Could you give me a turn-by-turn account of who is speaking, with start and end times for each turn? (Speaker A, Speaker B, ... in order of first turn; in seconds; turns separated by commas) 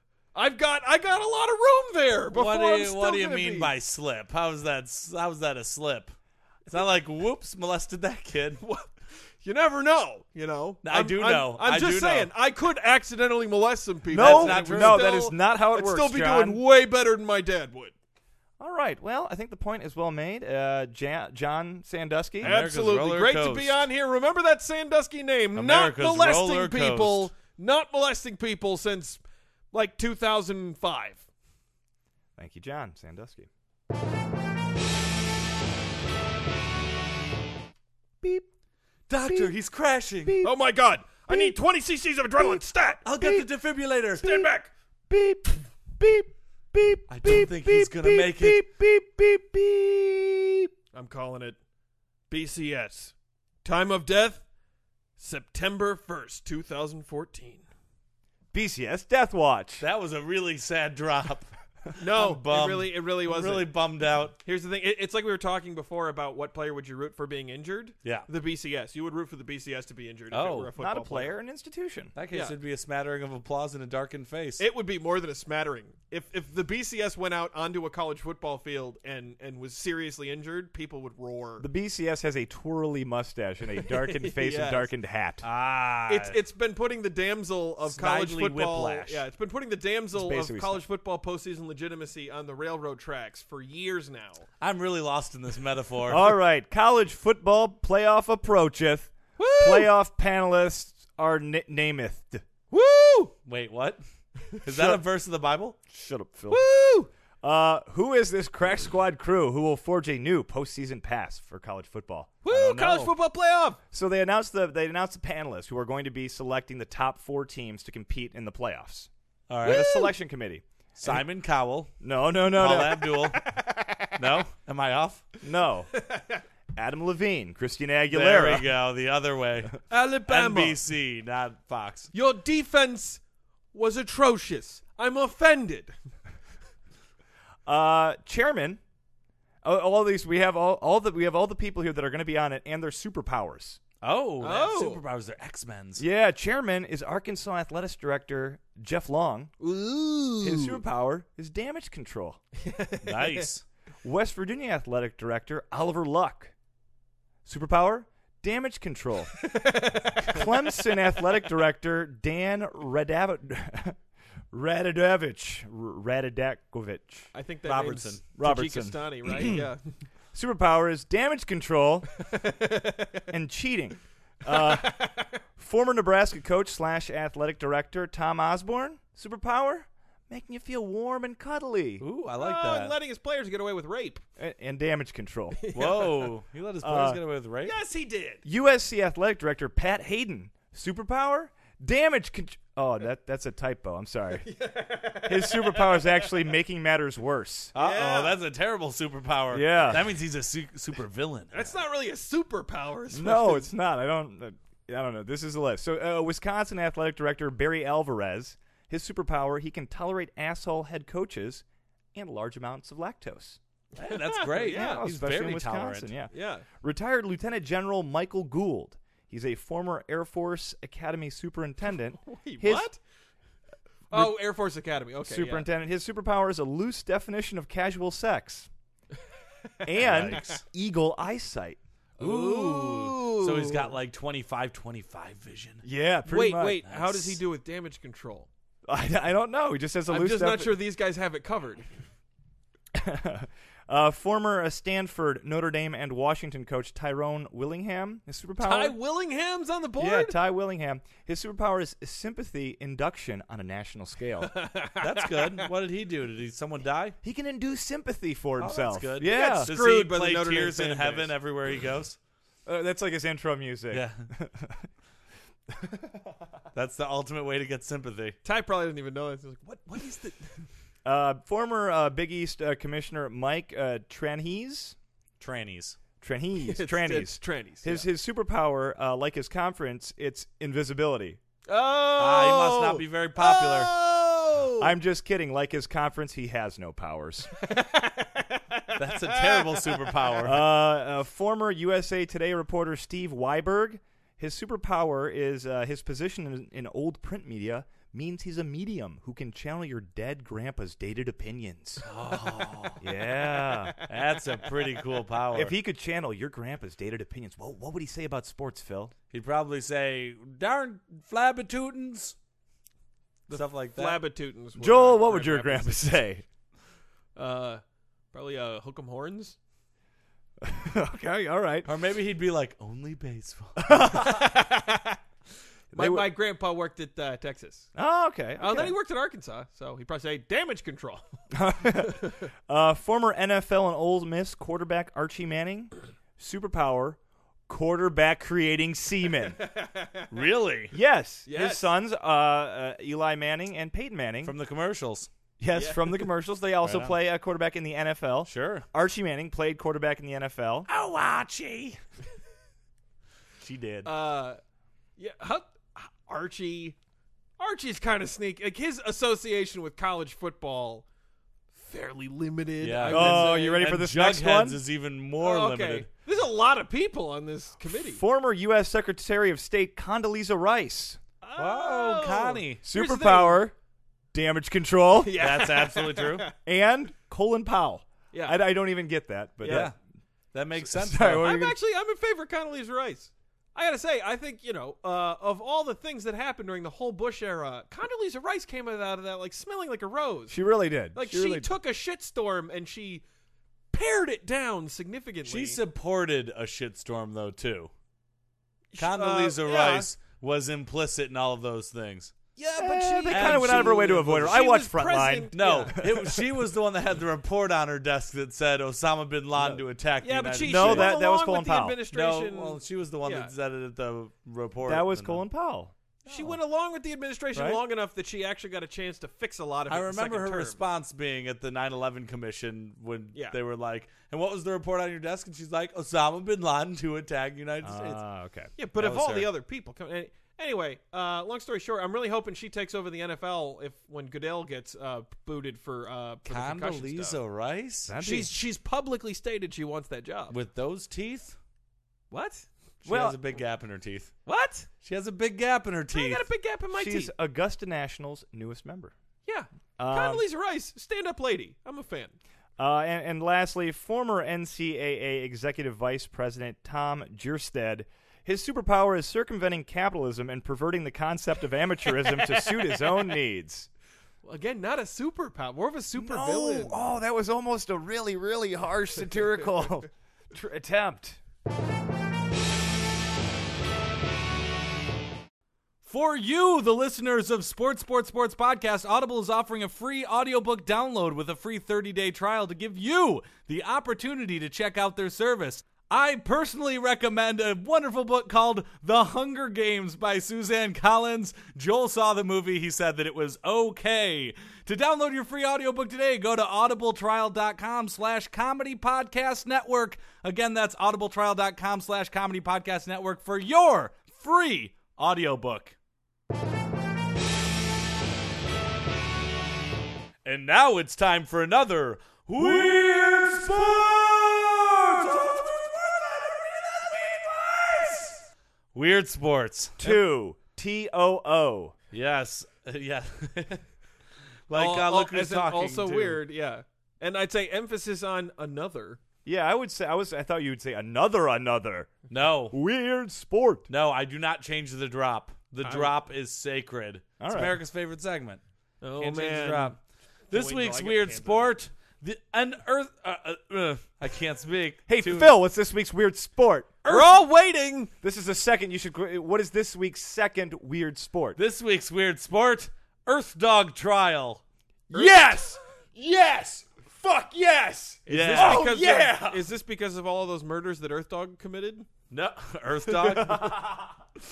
Speaker A: 0.3-3.7, Speaker B: 2.3-6.1, Speaker B: 6.7-8.6, Speaker A: 8.6-17.9, Speaker B: 10.8-12.3, Speaker C: 14.1-16.6, Speaker B: 14.1-15.1, Speaker C: 18.6-22.6, Speaker B: 22.4-23.8, Speaker A: 22.4-29.2, Speaker B: 25.6-27.3, Speaker A: 29.7-31.2, Speaker C: 32.4-33.5, Speaker B: 39.1-40.4, Speaker C: 39.2-39.5, Speaker C: 40.2-40.5, Speaker A: 40.4-43.1, Speaker C: 41.3-41.6, Speaker C: 42.4-42.6, Speaker B: 43.0-44.4, Speaker C: 43.2-43.5, Speaker A: 44.2-44.7, Speaker C: 44.2-44.5, Speaker C: 45.1-50.7, Speaker B: 47.1-48.6, Speaker A: 50.9-51.6, Speaker A: 52.3-54.4, Speaker A: 55.2-57.6, Speaker C: 58.5-59.9, Speaker B: 59.8-64.4, Speaker A: 62.0-63.7, Speaker A: 64.4-71.3, Speaker B: 70.3-70.7, Speaker C: 70.8-72.1, Speaker B: 72.2-74.7, Speaker A: 74.6-81.7, Speaker C: 81.6-85.4, Speaker A: 83.9-84.9, Speaker B: 85.4-86.4, Speaker A: 86.1-94.5, Speaker B: 87.9-89.2, Speaker C: 90.1-90.8, Speaker B: 94.6-96.3, Speaker C: 96.1-102.4, Speaker A: 99.4-99.9, Speaker A: 102.7-103.3, Speaker B: 103.5-104.0, Speaker B: 104.6-105.9, Speaker C: 105.9-106.6, Speaker A: 106.5-107.1, Speaker C: 107.4-112.4, Speaker A: 112.4-113.8, Speaker B: 112.5-113.1, Speaker C: 113.9-119.1, Speaker B: 119.5-119.9, Speaker A: 119.6-120.1, Speaker C: 119.6-121.3, Speaker B: 121.0-121.9, Speaker C: 122.0-123.1, Speaker B: 122.5-123.5, Speaker A: 123.0-124.2, Speaker B: 124.2-125.2, Speaker C: 125.4-125.9, Speaker A: 126.0-126.4, Speaker C: 126.8-128.7, Speaker B: 128.1-132.1, Speaker A: 129.9-130.8, Speaker A: 132.1-133.2, Speaker A: 133.7-135.9, Speaker C: 137.7-138.8, Speaker C: 139.6-143.8, Speaker B: 144.0-146.0, Speaker A: 144.4-145.0, Speaker C: 146.0-149.5, Speaker A: 149.6-150.8, Speaker C: 150.4-152.4, Speaker A: 152.6-153.5, Speaker B: 153.0-153.6, Speaker C: 154.0-156.5, Speaker C: 157.4-159.5, Speaker A: 159.4-161.0, Speaker C: 160.2-164.0, Speaker C: 164.5-167.3, Speaker A: 167.3-169.8, Speaker B: 167.7-168.2, Speaker C: 168.4-169.7, Speaker C: 170.3-172.1, Speaker A: 172.2-173.2, Speaker C: 173.3-175.0, Speaker A: 174.5-175.3, Speaker C: 175.6-182.0, Speaker B: 182.0-182.9, Speaker A: 182.4-184.2, Speaker C: 184.4-185.6, Speaker A: 185.6-186.3, Speaker B: 185.7-187.8, Speaker C: 186.8-187.2, Speaker A: 187.6-188.4, Speaker C: 188.4-194.5, Speaker A: 194.4-196.3, Speaker C: 195.2-197.7, Speaker B: 197.8-201.6, Speaker A: 197.8-198.4, Speaker C: 199.5-200.1, Speaker A: 201.5-203.7, Speaker C: 203.1-211.6, Speaker C: 212.2-213.6, Speaker B: 214.0-216.1, Speaker A: 214.0-215.0, Speaker C: 214.7-222.9, Speaker A: 216.3-216.7, Speaker A: 222.2-223.0, Speaker A: 224.1-225.7, Speaker C: 225.2-228.7, Speaker C: 229.8-231.8, Speaker B: 230.0-230.6, Speaker A: 230.2-230.6, Speaker A: 232.2-233.9, Speaker B: 232.2-235.8, Speaker C: 235.8-236.8, Speaker A: 236.3-238.5, Speaker B: 236.9-237.4, Speaker C: 238.9-240.7, Speaker A: 240.1-241.9, Speaker C: 242.9-249.0, Speaker A: 248.6-250.4, Speaker C: 250.0-254.5, Speaker A: 254.4-255.7, Speaker B: 255.0-257.2, Speaker C: 257.2-259.7, Speaker B: 258.6-262.2, Speaker A: 259.2-261.4, Speaker C: 262.7-264.9, Speaker B: 263.9-264.3, Speaker C: 265.7-266.4, Speaker B: 266.7-268.4, Speaker A: 268.4-270.6, Speaker C: 271.1-275.0, Speaker B: 275.4-276.0, Speaker C: 276.2-281.4, Speaker A: 276.6-278.1, Speaker A: 281.7-284.9, Speaker B: 282.2-283.9, Speaker C: 284.8-287.5, Speaker A: 287.6-290.0, Speaker B: 288.9-290.6, Speaker C: 290.4-302.0, Speaker B: 302.1-303.0, Speaker C: 303.0-304.0, Speaker A: 303.5-304.1, Speaker B: 304.1-305.8, Speaker C: 305.5-309.1, Speaker B: 309.3-312.4, Speaker A: 313.5-316.2, Speaker B: 313.5-314.2, Speaker C: 314.8-316.4, Speaker A: 317.4-317.8, Speaker A: 318.3-319.6, Speaker C: 320.6-321.9, Speaker B: 321.9-323.9, Speaker C: 323.8-324.6, Speaker A: 324.1-325.2, Speaker C: 325.9-326.3, Speaker A: 325.9-327.9, Speaker C: 327.9-328.9, Speaker A: 328.6-331.2, Speaker C: 331.5-339.6, Speaker A: 339.6-340.3, Speaker B: 340.3-340.9, Speaker C: 340.9-344.6, Speaker A: 341.5-341.9, Speaker B: 344.4-345.3, Speaker C: 345.6-350.9, Speaker A: 345.8-346.3, Speaker B: 346.8-347.1, Speaker B: 348.5-348.9, Speaker B: 350.9-352.0, Speaker B: 353.6-354.1, Speaker A: 354.1-354.6, Speaker A: 355.2-357.0, Speaker A: 357.6-361.1, Speaker A: 361.7-363.9, Speaker B: 362.8-366.1, Speaker C: 363.1-364.8, Speaker A: 365.4-368.2, Speaker C: 367.9-371.2, Speaker A: 371.4-373.6, Speaker B: 371.6-372.8, Speaker C: 372.8-373.7, Speaker C: 374.3-375.4, Speaker A: 375.2-376.5, Speaker B: 375.4-376.5, Speaker C: 376.6-379.9, Speaker A: 378.3-378.6, Speaker A: 379.6-379.9, Speaker B: 379.7-379.9, Speaker B: 380.5-381.5, Speaker C: 380.8-381.8, Speaker A: 381.3-390.6, Speaker C: 390.5-391.7, Speaker A: 391.1-393.2, Speaker A: 393.9-395.8, Speaker B: 395.4-397.9, Speaker A: 398.9-400.1, Speaker B: 399.0-402.4, Speaker A: 402.6-405.9, Speaker C: 402.8-406.4, Speaker B: 403.3-404.6, Speaker B: 405.5-411.1, Speaker A: 410.2-413.5, Speaker C: 410.6-412.0, Speaker B: 412.1-415.4, Speaker C: 414.9-415.9, Speaker A: 416.3-420.8, Speaker B: 416.3-416.6, Speaker C: 417.5-417.8, Speaker B: 419.9-428.2, Speaker C: 427.8-428.7, Speaker A: 428.8-437.4, Speaker B: 429.0-429.5, Speaker B: 436.5-438.1, Speaker C: 438.1-438.5, Speaker A: 438.2-440.6, Speaker B: 440.5-441.6, Speaker A: 442.3-442.7, Speaker B: 443.0-444.3, Speaker C: 443.1-443.4, Speaker A: 444.5-444.9, Speaker B: 445.0-446.5, Speaker A: 446.1-447.3, Speaker C: 446.9-449.1, Speaker A: 449.5-452.3, Speaker C: 450.0-450.4, Speaker C: 452.8-463.9, Speaker A: 462.3-463.1, Speaker A: 464.4-467.0, Speaker C: 466.2-471.4, Speaker B: 476.1-505.9, Speaker B: 510.4-518.4, Speaker B: 518.9-520.2, Speaker C: 520.0-522.0, Speaker B: 522.1-523.8, Speaker B: 524.7-526.4, Speaker A: 524.7-529.2, Speaker C: 529.5-532.2, Speaker B: 532.3-532.8, Speaker C: 532.7-533.9, Speaker B: 533.9-538.6, Speaker A: 535.8-536.1, Speaker C: 537.4-537.8, Speaker A: 539.0-540.0, Speaker B: 539.2-540.0, Speaker A: 540.5-541.8, Speaker B: 540.5-545.5, Speaker C: 545.1-547.3, Speaker A: 547.0-548.1, Speaker C: 548.2-551.6, Speaker B: 551.6-554.6, Speaker C: 555.1-555.8, Speaker A: 555.1-555.8, Speaker C: 557.1-559.6, Speaker A: 558.2-562.1, Speaker B: 558.3-559.2, Speaker B: 562.3-563.8, Speaker C: 563.4-564.1